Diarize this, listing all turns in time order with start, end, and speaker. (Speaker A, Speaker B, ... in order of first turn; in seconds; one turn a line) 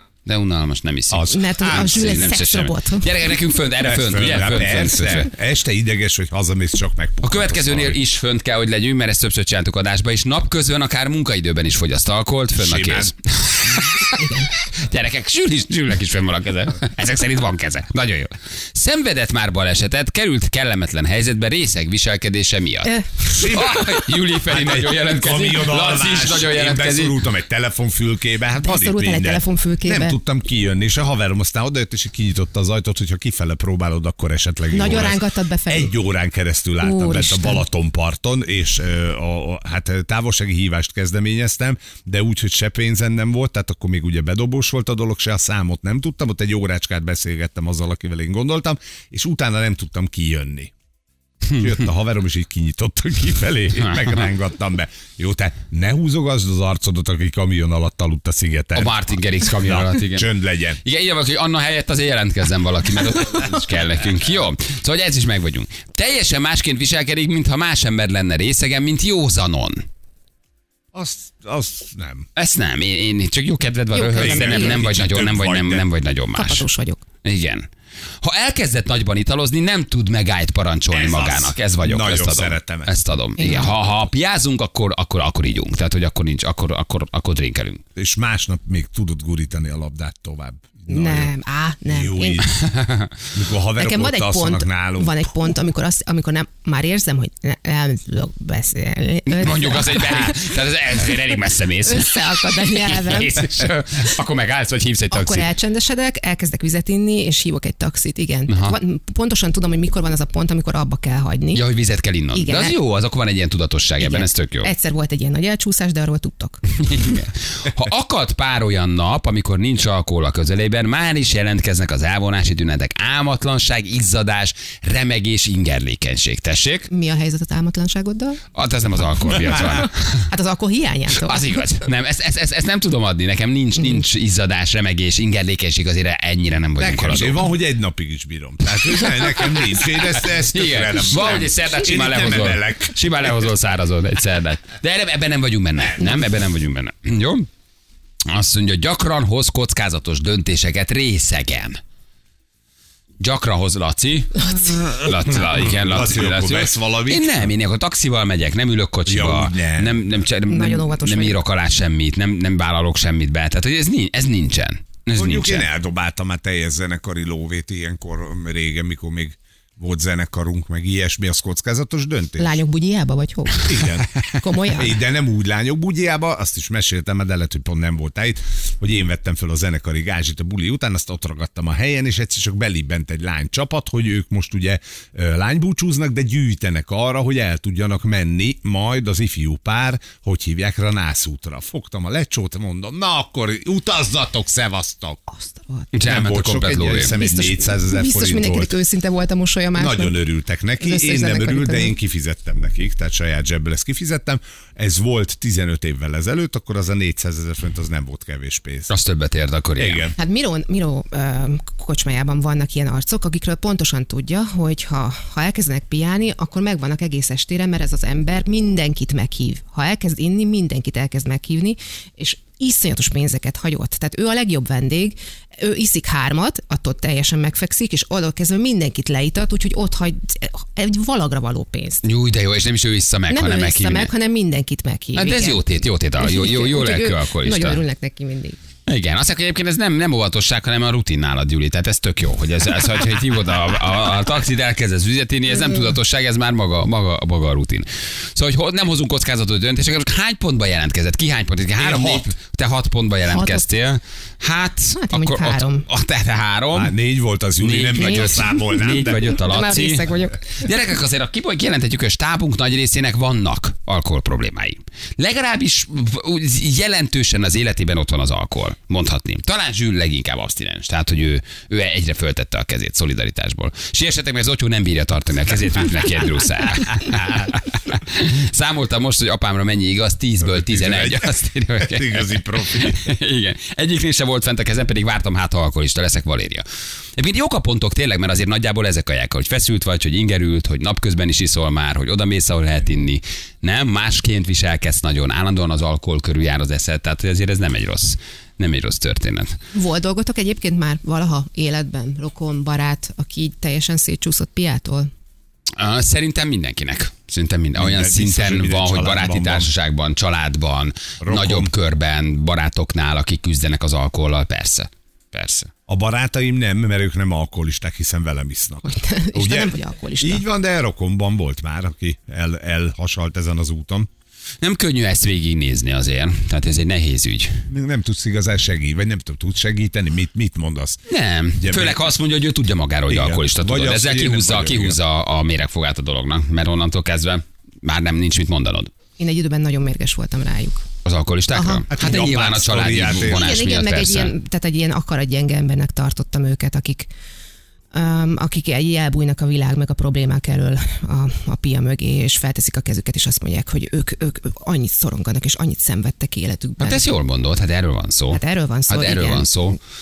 Speaker A: 0.3-5.3
Speaker B: 1.1-2.4
Speaker C: 1.3-3.1
Speaker B: 3.9-8.0
Speaker A: 7.2-27.2
Speaker B: 12.6-13.1
Speaker C: 14.1-14.5
Speaker C: 22.9-23.3
Speaker B: 23.3-50.7
Speaker C: 28.6-30.2
Speaker C: 34.7-35.9
Speaker C: 36.8-37.6
Speaker B: 51.5-59.0
Speaker A: 53.8-54.3
Speaker A: 58.7-60.3
Speaker B: 59.5-60.8
Speaker A: 60.8-69.8
Speaker B: 70.9-72.3
Speaker A: 72.4-76.7
Speaker C: 73.9-74.9
Speaker B: 74.1-75.9
Speaker C: 76.3-77.0
Speaker A: 77.2-77.7
Speaker A: 78.2-87.8
Speaker B: 80.9-82.9
Speaker C: 83.4-83.8
Speaker B: 88.0-91.3
Speaker C: 90.9-92.5
Speaker B: 91.9-92.6
Speaker A: 92.5-93.1
Speaker B: 93.3-95.3
Speaker C: 93.8-101.3
Speaker A: 99.3-105.5
Speaker C: 101.8-103.4
Speaker C: 105.1-111.6
Speaker A: 108.5-108.8
Speaker A: 111.5-114.7
Speaker C: 112.3-112.8
Speaker C: 114.0-116.6
Speaker A: 116.8-126.9
Speaker C: 126.9-128.4
Speaker A: 128.6-130.3
Speaker C: 129.4-131.7
Speaker A: 131.1-137.5
Speaker B: 136.8-143.4
Speaker A: 138.9-147.5
Speaker A: 148.3-151.8
Speaker A: 153.2-165.7
Speaker B: 154.6-157.5
Speaker B: 159.1-160.0
Speaker C: 160.5-161.4
Speaker B: 165.1-172.6
Speaker C: 172.4-175.0
Speaker B: 173.6-195.2
Speaker C: 195.3-196.1
Speaker A: 195.9-197.2
Speaker B: 196.0-198.7
Speaker C: 197.1-200.2
Speaker B: 199.8-208.9
Speaker C: 200.8-201.9
Speaker A: 208.9-210.1
Speaker B: 209.8-210.1
Speaker C: 210.2-232.0
Speaker A: 232.0-234.1
Speaker C: 233.3-235.7
Speaker A: 235.2-237.8
Speaker C: 236.2-238.6
Speaker A: 238.9-257.0
Speaker B: 251.8-252.3
Speaker C: 253.3-253.7
Speaker C: 254.9-255.9
Speaker B: 256.7-259.3
Speaker A: 257.6-286.6
Speaker C: 258.0-258.5
Speaker C: 259.3-260.6
Speaker B: 280.4-283.0
Speaker A: 287.2-299.5
Speaker C: 299.7-305.1
Speaker A: 305.8-315.7
Speaker B: 307.8-309.7
Speaker B: 311.2-311.7
Speaker B: 315.9-324.1
Speaker C: 318.8-320.4
Speaker A: 324.6-327.6
Speaker B: 327.7-331.0
Speaker A: 331.1-338.9
Speaker B: 331.6-332.1
Speaker B: 333.1-335.0
Speaker C: 339.2-340.9
Speaker A: 341.1-344.3
Speaker C: 341.5-342.1
Speaker B: 341.9-343.5
Speaker C: 343.2-347.1
Speaker C: 347.9-357.1
Speaker A: 356.8-359.8
Speaker C: 358.3-359.6